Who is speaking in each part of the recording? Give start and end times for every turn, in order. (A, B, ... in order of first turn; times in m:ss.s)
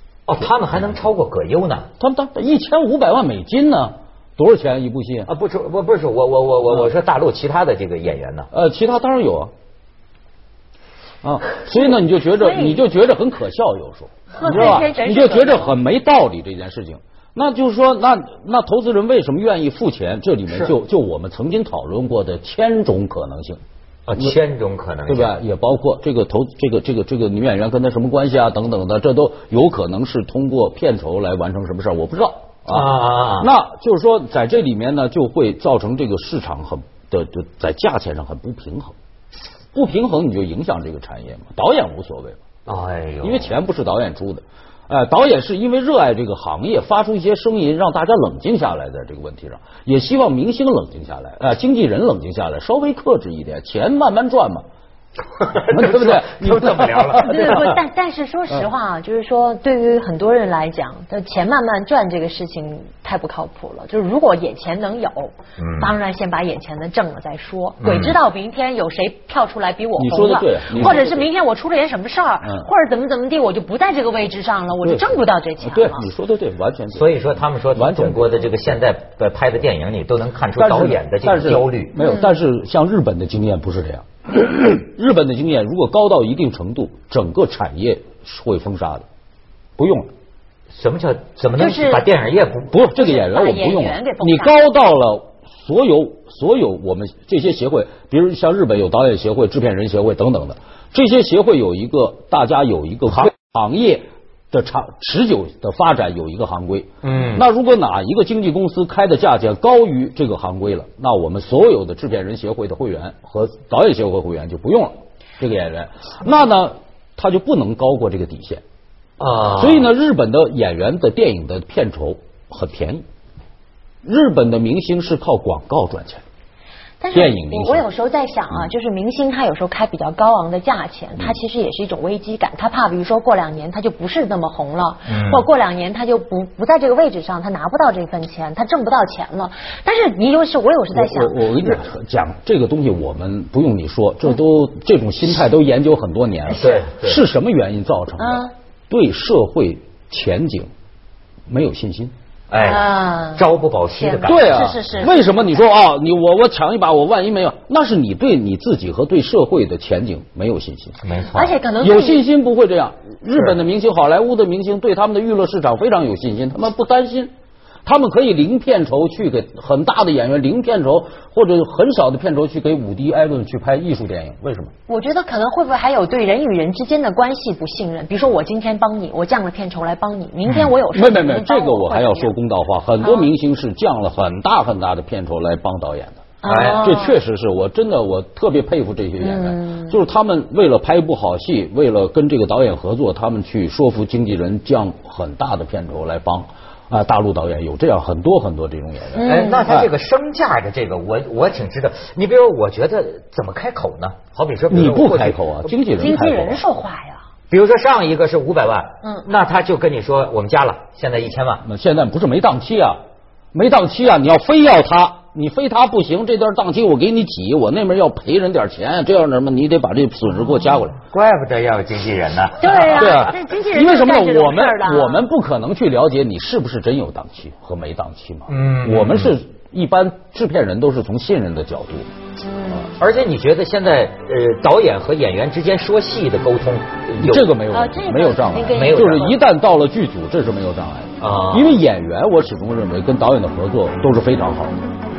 0:00.3-0:01.9 A
0:02.0-0:05.3 B
0:05.3-0:08.5 A
0:08.5-0:09.5 B
0:11.2-0:23.6 B
0:12.3-0:12.8 C
0:14.3-0:15.7 C
0:24.1-0:25.4 A
0:25.1-0:39.0 B
0:32.7-0:33.5 A
0:39.7-0:42.4 B
0:42.7-0:43.5 A
0:43.2-0:54.6 B
0:55.4-0:57.8 A
0:55.7-0:57.7 B
0:57.2-1:16.0 C
1:05.6-1:06.0 A
1:07.8-1:08.2 A
1:10.0-1:11.3 B
1:12.4-1:12.7 B
1:14.8-1:17.1 B
1:16.9-1:22.0 A
1:17.8-1:18.5 B
1:20.6-1:29.1 B
1:22.0-1:22.3 C
1:29.8-1:30.1 B
1:30.7-1:32.8 A
1:31.6-1:32.1 C
1:32.7-1:58.6 B
1:33.0-1:34.6 C
1:47.0-1:47.4 A
1:59.2-1:59.9 A
1:59.6-2:03.0 B
2:04.0-2:06.2 B
2:07.0-2:21.8 C
2:07.1-2:07.8 B
2:15.1-2:15.5 A
2:20.9-2:30.7 B
2:26.6-2:27.2 A
2:26.6-2:26.8 C
2:28.2-2:28.5 C
2:31.5-2:32.1 B
2:32.5-2:34.7 A
2:32.6-2:33.4 C
2:34.0-2:35.5 C
2:34.2-2:41.0 B
2:41.0-2:41.6 A
2:41.3-2:42.2 C
2:41.8-2:47.3 B
2:43.3-2:43.6 A
2:47.8-2:54.7 B
2:54.9-3:02.3 C
3:00.5-3:00.7 A
3:00.9-3:19.9 B
3:03.0-3:03.3 C
3:06.4-3:07.1 C
3:06.4-3:07.0 A
3:09.2-3:10.0 C
3:19.2-3:19.7 C
3:19.2-3:25.5 A
3:24.7-3:26.6 B
3:26.0-3:27.2 C
3:27.5-3:31.6 A
3:29.0-3:29.3 C
3:31.6-3:33.0 B
3:33.5-3:41.0 B
3:41.1-3:43.3 A
3:42.6-3:45.2 C
3:42.9-3:52.1 B
3:48.5-3:49.4 A
3:52.4-3:52.9 C
3:53.0-3:57.5 A
3:57.2-4:04.8 B
3:57.7-3:59.4 C
3:58.7-3:59.3 A
4:01.2-4:01.8 A